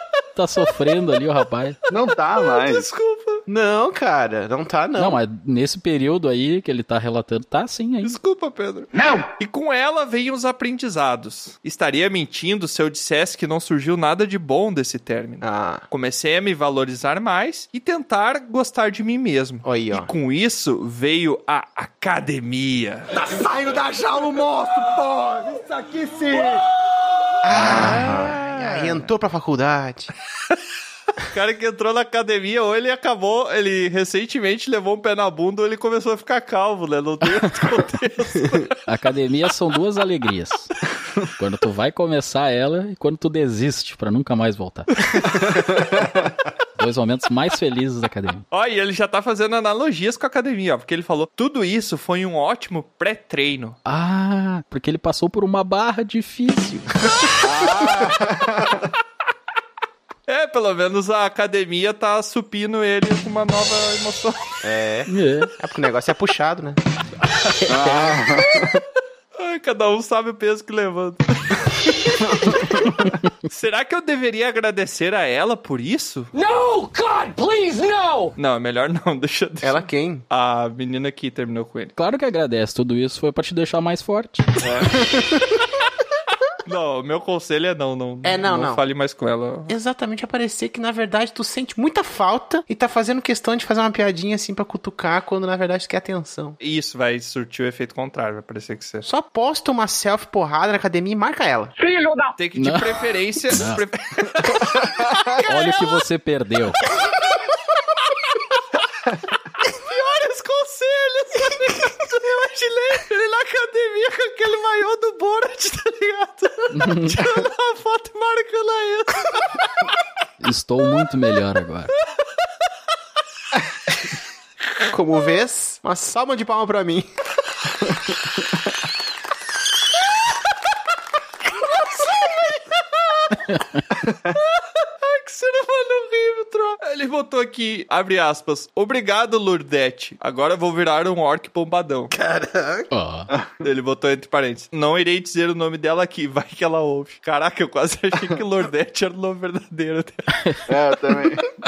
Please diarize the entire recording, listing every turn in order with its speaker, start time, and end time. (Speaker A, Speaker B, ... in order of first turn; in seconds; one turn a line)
Speaker A: 0.4-1.8
Speaker B: 1.9-2.9
Speaker C: 2.4-3.4
Speaker D: 3.5-5.2
Speaker A: 5.0-8.2
Speaker C: 8.0-23.1
Speaker E: 8.9-9.3
Speaker D: 15.4-15.9
Speaker D: 19.6-20.1
Speaker F: 23.2-26.6
Speaker D: 27.4-30.1
Speaker C: 27.6-29.1
Speaker B: 27.6-28.0
Speaker C: 31.3-38.7
Speaker A: 38.9-40.7
Speaker A: 41.4-45.1
Speaker B: 45.4-46.2
Speaker A: 46.8-48.4
Speaker C: 48.5-53.8
Speaker A: 53.9-56.9
Speaker B: 57.4-58.9
Speaker C: 60.3-64.5
Speaker D: 64.6-66.8
Speaker A: 65.1-65.5
Speaker B: 67.7-68.8
Speaker C: 69.4-76.3
Speaker E: 76.3-78.3
Speaker C: 78.4-81.9
Speaker D: 79.6-80.2
Speaker A: 82.0-84.5
Speaker C: 84.6-84.9
Speaker D: 84.9-85.5
Speaker C: 86.7-89.7
Speaker D: 88.2-88.8
Speaker D: 89.7-96.6
Speaker C: 96.6-99.0
Speaker D: 99.0-101.7
Speaker E: 101.8-102.3
Speaker C: 102.4-106.0
Speaker A: 102.6-103.8
Speaker A: 105.5-106.8
Speaker C: 109.6-119.9
Speaker A: 116.7-117.2
Speaker A: 120.4-121.9
Speaker D: 124.9-127.1
Speaker A: 133.5-133.8
Speaker C: 134.3-142.1
Speaker D: 142.1-142.9
Speaker A: 142.9-143.3
Speaker C: 143.6-150.4
Speaker B: 150.7-151.5